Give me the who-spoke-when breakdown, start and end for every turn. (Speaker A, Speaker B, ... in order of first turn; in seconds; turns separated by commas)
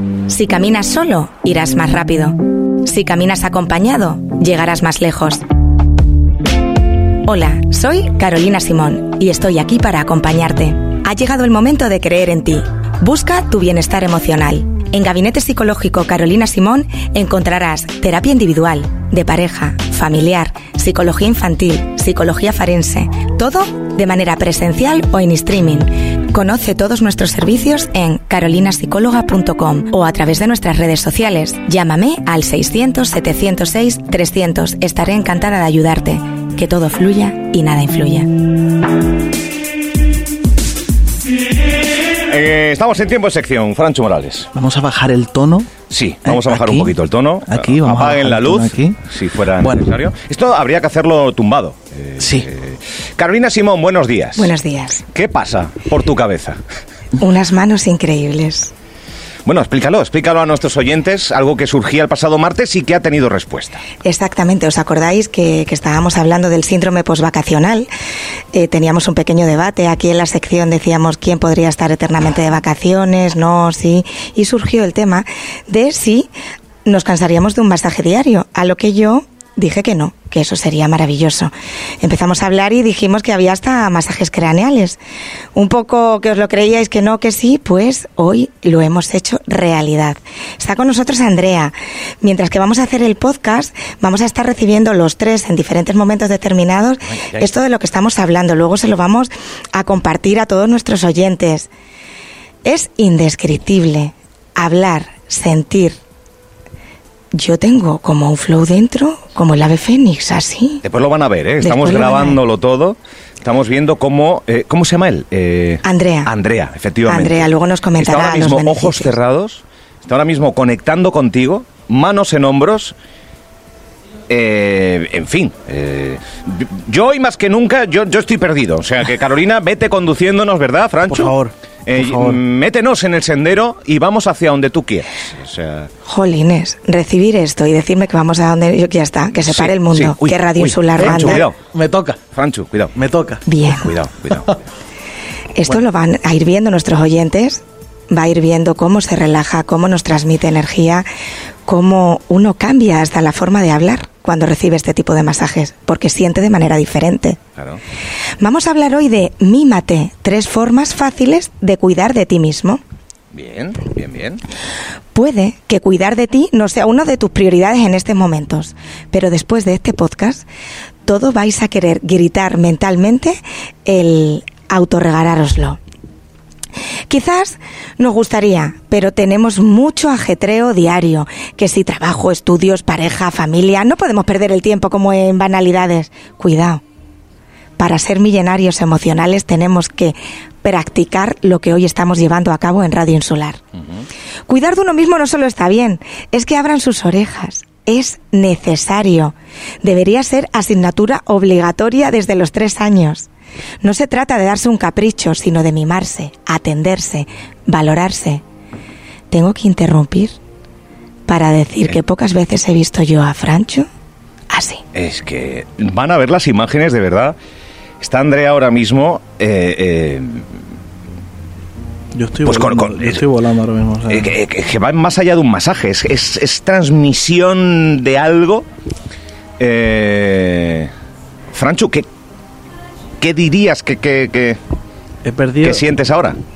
Speaker A: 0.3-5.4, Speaker A: 7.2-38.3, Speaker B: 42.3-44.5, Speaker C: 44.5-45.7, Speaker B: 45.9-54.5, Speaker C: 46.2-46.9, Speaker C: 47.5-49.0, Speaker C: 49.6-49.9, Speaker C: 52.2-52.5, Speaker A: 54.4-55.0, Speaker B: 55.0-56.6, Speaker A: 57.2-58.7, Speaker B: 59.4-63.8, Speaker A: 64.0-67.9, Speaker A: 68.5-76.3, Speaker A: 76.8-85.0, Speaker A: 85.5-101.7, Speaker B: 97.2-97.5, Speaker A: 102.6-106.0, Speaker A: 107.3-110.8, Speaker B: 110.8-122.9, Speaker A: 111.6-112.4, Speaker A: 115.8-116.3, Speaker A: 117.0-119.1, Speaker B: 124.3-131.3, Speaker C: 131.1-132.4, Speaker B: 131.8-135.9, Speaker A: 136.0-141.4, Speaker B: 139.3-141.6, Speaker C: 141.0-142.2, Speaker B: 142.3-142.9, Speaker C: 142.9-143.4, Speaker A: 143.4-143.9, Speaker B: 143.7-144.5, Speaker A: 145.5-151.1, Speaker A: 151.7-157.4, Speaker B: 157.6-157.8, Speaker A: 158.4-162.8, Speaker B: 163.3-164.4, Speaker A: 165.1-170.4, Speaker A: 171.1-175.8, Speaker A: 177.1-186.8, Speaker A: 187.8-193.6, Speaker A: 194.5-203.3, Speaker A: 203.8-208.4, Speaker A: 209.3-210.4, Speaker A: 211.3-213.9, Speaker A: 214.5-214.8, Speaker B: 214.9-217.3, Speaker B: 218.0-220.5, Speaker C: 222.1-224.3, Speaker B: 222.4-223.2, Speaker B: 224.1-228.7, Speaker B: 229.6-230.9, Speaker B: 231.5-232.1, Speaker B: 233.2-234.6, Speaker C: 235.2-235.8, Speaker B: 235.6-236.4